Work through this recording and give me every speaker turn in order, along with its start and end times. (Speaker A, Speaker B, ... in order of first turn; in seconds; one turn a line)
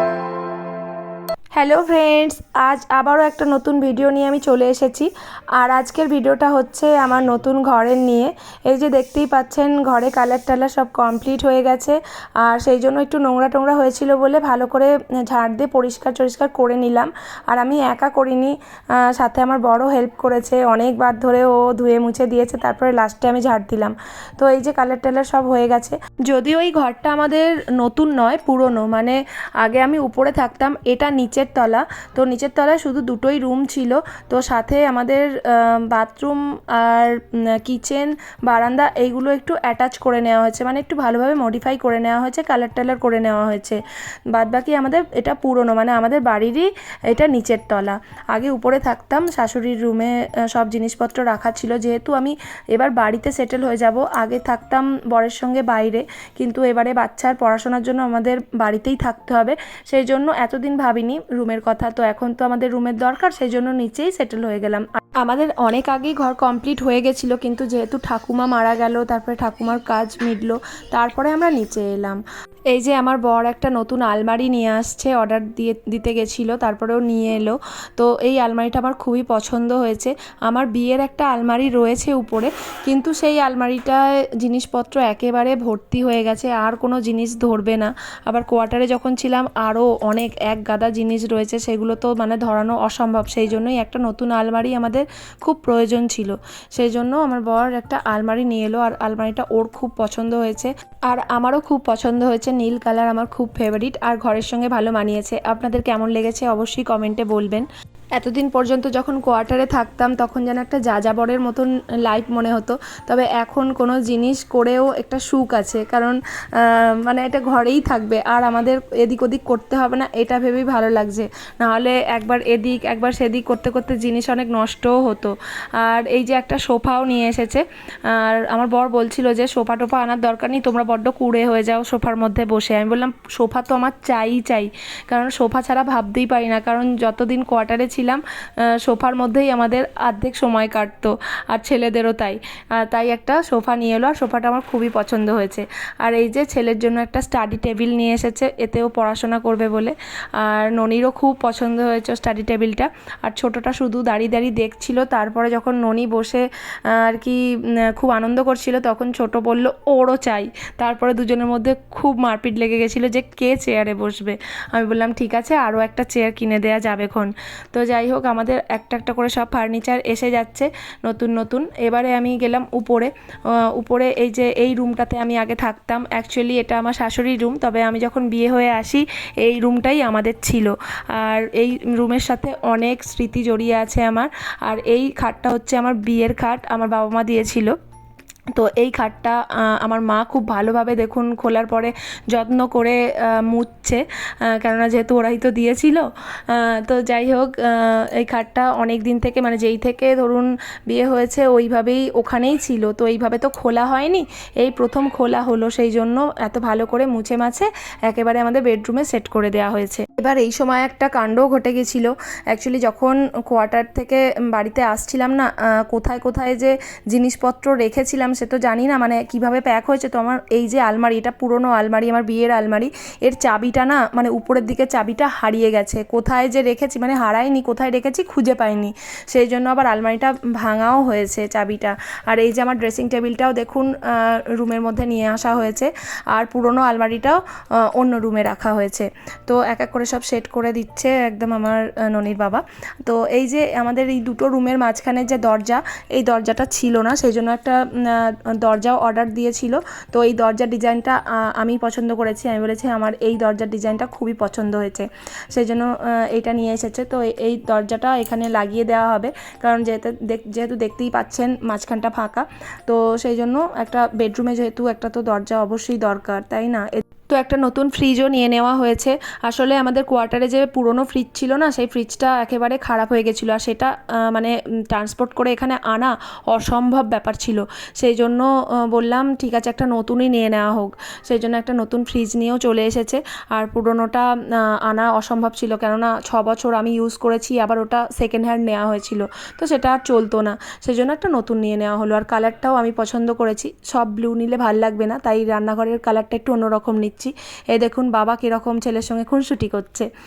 Speaker A: 1.6-43.8
Speaker A: 44.3-72.2
Speaker A: 72.7-187.8
Speaker A: 188.5-300.1